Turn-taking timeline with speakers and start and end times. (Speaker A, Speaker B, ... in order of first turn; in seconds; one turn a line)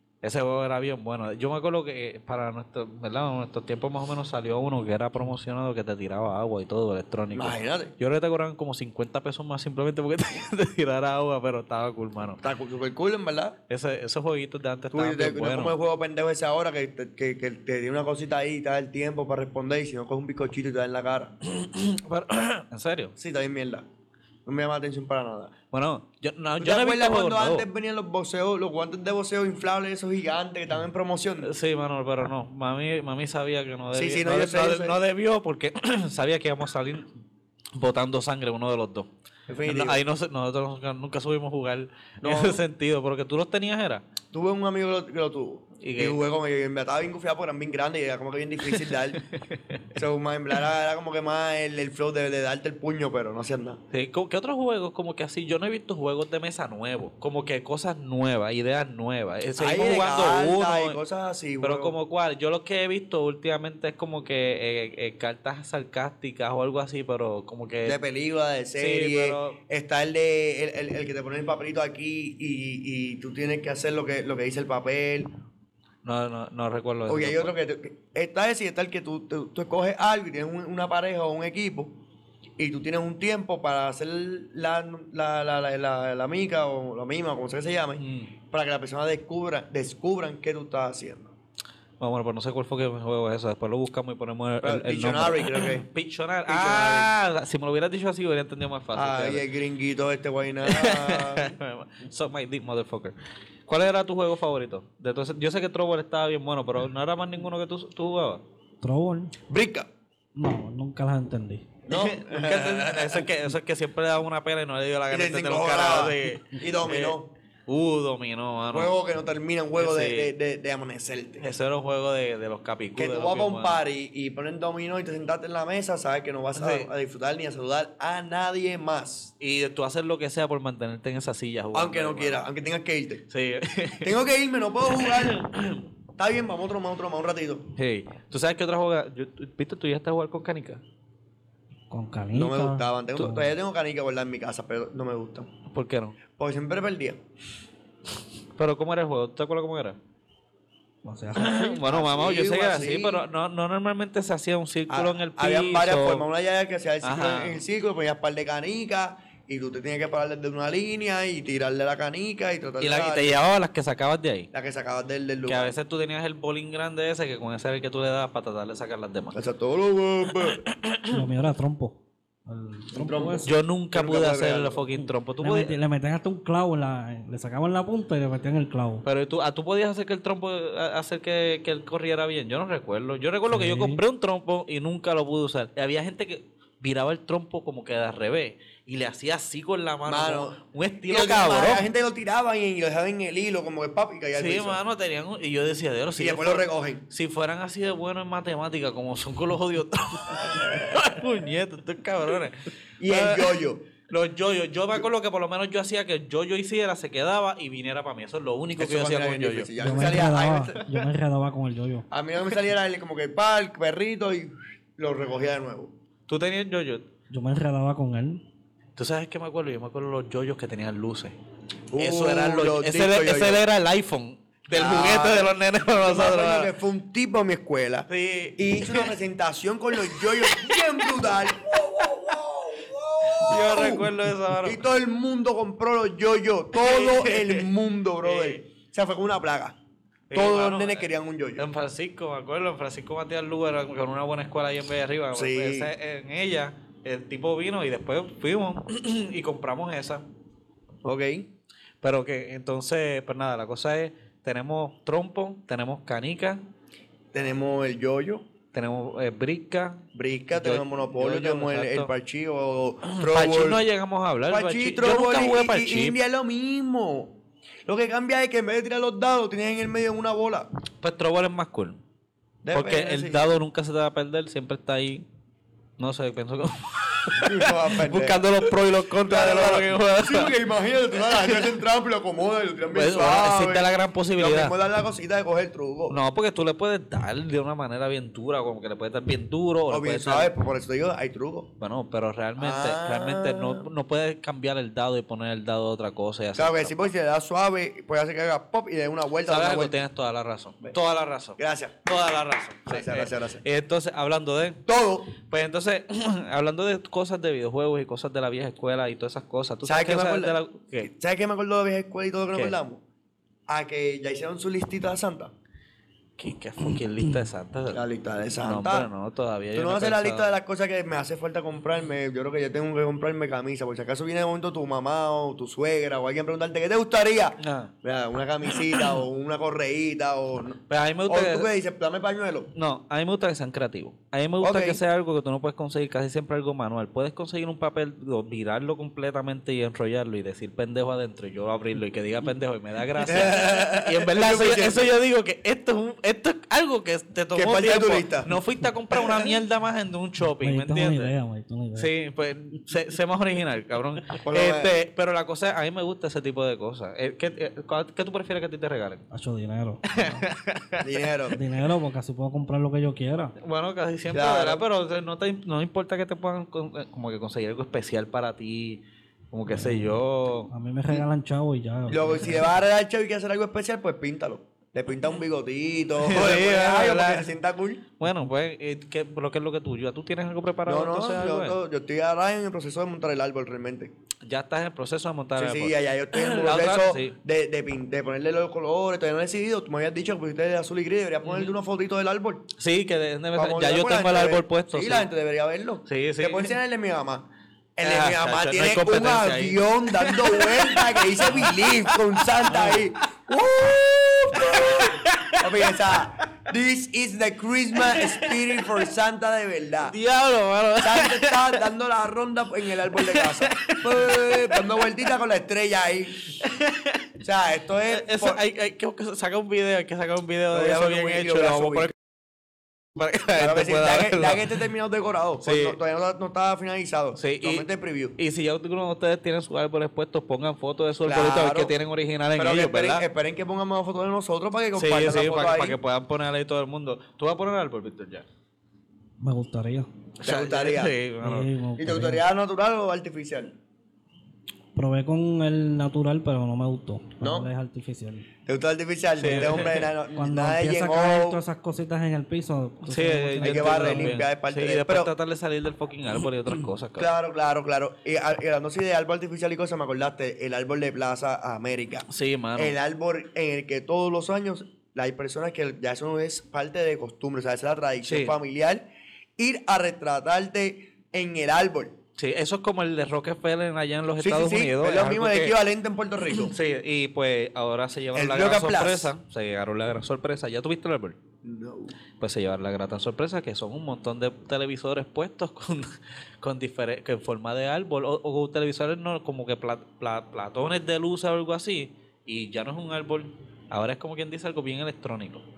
Speaker A: 0.2-12.4
Speaker B: 7.3-7.9
Speaker B: 12.4-13.6
Speaker A: 13.7-15.7
Speaker B: 14.9-21.3
Speaker A: 21.4-23.1
Speaker B: 23.2-23.9
Speaker B: 24.4-25.5
Speaker A: 25.7-27.7
Speaker B: 26.6-31.5
Speaker A: 31.4-37.1
Speaker B: 33.9-35.0
Speaker A: 37.7-39.1
Speaker B: 39.5-40.0
Speaker A: 39.6-44.0
Speaker B: 42.2-42.6
Speaker B: 44.3-49.2
Speaker A: 45.8-46.2
Speaker A: 48.7-50.0
Speaker B: 49.9-53.8
Speaker A: 53.9-61.0
Speaker B: 59.6-61.9
Speaker A: 61.6-68.0
Speaker B: 67.8-75.3
Speaker A: 68.8-69.6
Speaker A: 76.0-77.5
Speaker B: 77.1-82.0
Speaker B: 82.6-91.3
Speaker A: 88.0-88.3
Speaker A: 92.0-99.4
Speaker B: 94.6-95.8
Speaker B: 96.5-97.1
Speaker B: 98.9-101.5
Speaker A: 100.6-103.1
Speaker A: 103.7-108.4
Speaker C: 108.8-109.3
Speaker B: 109.5-109.9
Speaker C: 110.3-111.7
Speaker B: 111.9-113.3
Speaker A: 111.9-117.2
Speaker B: 115.1-117.3
Speaker A: 117.7-118.9
Speaker B: 118.7-121.5
Speaker A: 119.8-120.3
Speaker A: 121.4-123.8
Speaker B: 123.0-129.3
Speaker A: 126.5-126.9
Speaker A: 129.4-132.4
Speaker B: 131.7-133.2
Speaker A: 133.3-134.2
Speaker B: 134.0-135.5
Speaker A: 134.9-135.8
Speaker B: 136.2-137.7
Speaker A: 137.8-140.8
Speaker C: 141.9-143.5
Speaker B: 142.3-145.5
Speaker A: 145.7-146.2
Speaker B: 146.4-147.2
Speaker A: 148.6-150.0
Speaker C: 151.0-151.6
Speaker B: 151.3-153.2
Speaker A: 151.3-156.2
Speaker B: 154.9-163.4
Speaker A: 157.0-157.6
Speaker A: 162.8-164.5
Speaker B: 164.5-165.7
Speaker A: 165.5-169.4
Speaker B: 169.3-170.6
Speaker A: 170.3-171.2
Speaker C: 171.1-173.5
Speaker B: 172.9-174.8
Speaker A: 173.4-175.8
Speaker C: 175.4-179.0
Speaker A: 179.0-191.9
Speaker C: 183.5-184.0
Speaker B: 190.1-194.8
Speaker A: 194.3-210.2
Speaker B: 196.2-197.0
Speaker B: 200.5-200.9
Speaker B: 203.0-203.8
Speaker B: 208.8-210.8
Speaker C: 209.8-212.1
Speaker B: 212.1-215.9
Speaker A: 216.3-217.0
Speaker C: 217.3-218.4
Speaker A: 218.9-221.3
Speaker B: 221.9-223.6
Speaker A: 221.9-226.7
Speaker B: 224.7-239.8
Speaker A: 228.1-229.1
Speaker A: 230.0-232.3
Speaker A: 233.3-234.8
Speaker A: 236.8-237.7
Speaker A: 238.2-238.6
Speaker A: 240.3-241.1
Speaker B: 240.3-241.7
Speaker A: 241.6-250.2
Speaker B: 245.3-245.9
Speaker B: 251.0-251.5
Speaker A: 252.0-256.6
Speaker B: 257.3-258.5
Speaker A: 258.7-262.1
Speaker B: 260.1-263.8
Speaker A: 263.0-266.2
Speaker B: 264.5-270.7
Speaker A: 271.0-272.0
Speaker B: 272.6-273.5
Speaker A: 272.7-275.2
Speaker A: 276.0-280.6
Speaker B: 277.4-278.5
Speaker B: 279.2-286.2
Speaker A: 281.2-281.8
Speaker A: 282.9-284.7
Speaker A: 286.1-290.5
Speaker B: 289.9-291.7
Speaker A: 291.8-297.1
Speaker B: 292.6-293.9
Speaker B: 296.6-299.9
Speaker A: 299.4-304.8
Speaker B: 301.6-302.1
Speaker B: 302.9-303.6
Speaker B: 304.9-305.3
Speaker A: 305.4-311.1
Speaker B: 309.8-313.0
Speaker B: 313.7-315.5
Speaker A: 316.4-318.0
Speaker B: 317.9-319.1
Speaker A: 318.6-320.5
Speaker B: 319.7-332.7
Speaker A: 327.6-327.9
Speaker A: 330.9-331.7
Speaker A: 332.7-351.3
Speaker B: 334.6-335.0
Speaker B: 343.2-345.1
Speaker B: 347.5-348.5
Speaker B: 349.1-349.6
Speaker C: 350.6-352.1
Speaker A: 351.9-359.2
Speaker B: 354.4-354.9
Speaker C: 359.3-360.4
Speaker A: 360.1-361.3
Speaker B: 361.0-361.6
Speaker C: 361.5-363.5
Speaker A: 363.6-370.7
Speaker B: 364.3-364.8
Speaker C: 369.7-370.2
Speaker C: 370.7-372.7
Speaker B: 372.1-378.0
Speaker A: 376.2-377.5
Speaker A: 378.2-381.8
Speaker B: 380.9-384.1
Speaker A: 384.4-387.4
Speaker B: 385.6-392.7
Speaker A: 391.4-391.7
Speaker A: 392.8-395.3
Speaker B: 393.5-410.1
Speaker A: 396.1-396.7
Speaker A: 398.0-403.1
Speaker A: 404.5-406.1
Speaker A: 407.9-409.1
Speaker A: 410.1-411.8
Speaker B: 411.0-416.5
Speaker A: 413.1-415.1
Speaker A: 416.5-417.3
Speaker B: 417.4-418.6
Speaker A: 418.1-422.1
Speaker B: 420.7-422.1
Speaker A: 423.1-424.8
Speaker B: 423.6-428.4
Speaker A: 425.6-426.0
Speaker A: 427.4-427.9
Speaker A: 428.4-433.2
Speaker B: 431.2-431.9
Speaker B: 432.6-436.0
Speaker A: 434.9-438.4
Speaker C: 439.4-440.1
Speaker A: 440.4-441.7
Speaker B: 440.4-441.1
Speaker C: 441.4-442.4
Speaker B: 442.0-443.8
Speaker C: 444.9-448.5
Speaker B: 447.4-447.7
Speaker B: 448.6-451.6
Speaker A: 449.4-450.1
Speaker C: 450.3-454.4
Speaker A: 453.1-457.3
Speaker B: 453.6-455.3
Speaker B: 457.2-469.0
Speaker A: 462.3-462.9
Speaker A: 468.2-468.6
Speaker B: 469.6-472.1
Speaker A: 472.4-475.8
Speaker B: 474.4-476.7
Speaker A: 476.5-481.4
Speaker B: 478.3-479.3
Speaker B: 481.6-482.1
Speaker A: 482.4-495.6